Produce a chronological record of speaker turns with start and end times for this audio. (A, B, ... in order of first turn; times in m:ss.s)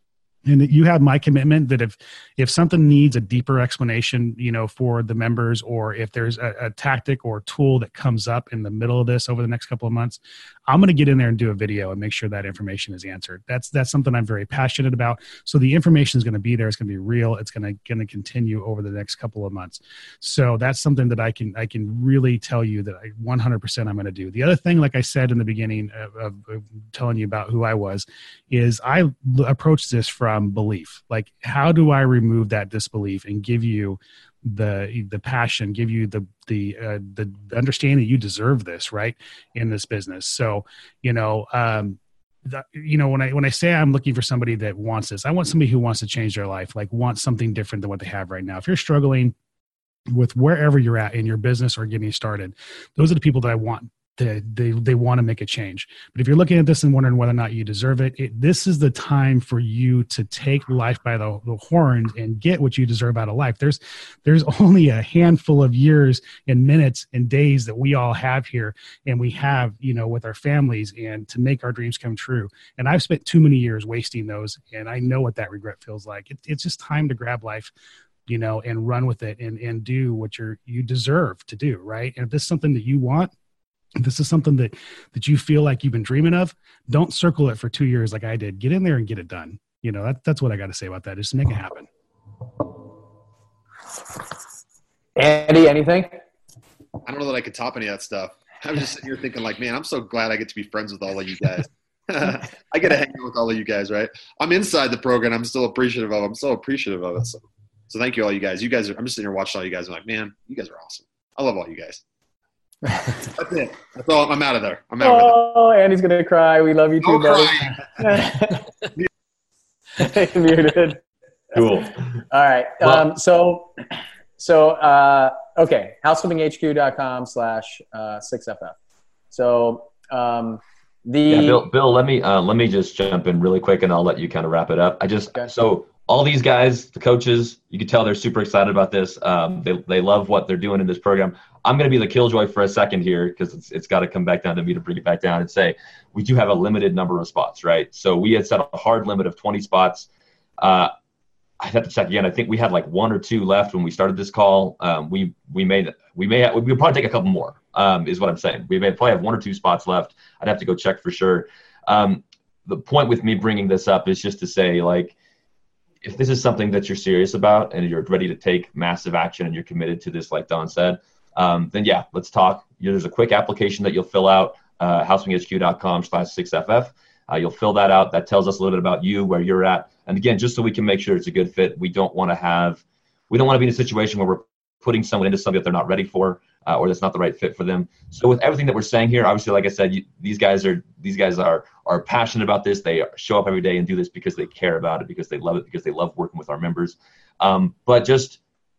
0:00.4-0:49.3 A
0:50.1-1:17.7 A
1:18.3-1:23.3 A
1:24.0-1:31.9 A
1:35.2-1:36.2 B
1:37.0-1:52.0 C
1:53.2-1:55.3 C
1:55.0-1:58.7 B
1:57.0-1:57.8 C
2:00.0-2:01.0 B
2:01.5-2:02.1 D
2:02.3-2:03.8 B
2:04.4-2:08.7 B
2:09.3-2:11.6 B
2:11.3-2:30.1 D
2:30.6-2:30.9 D
2:31.6-2:45.1 D
2:46.0-3:18.4 D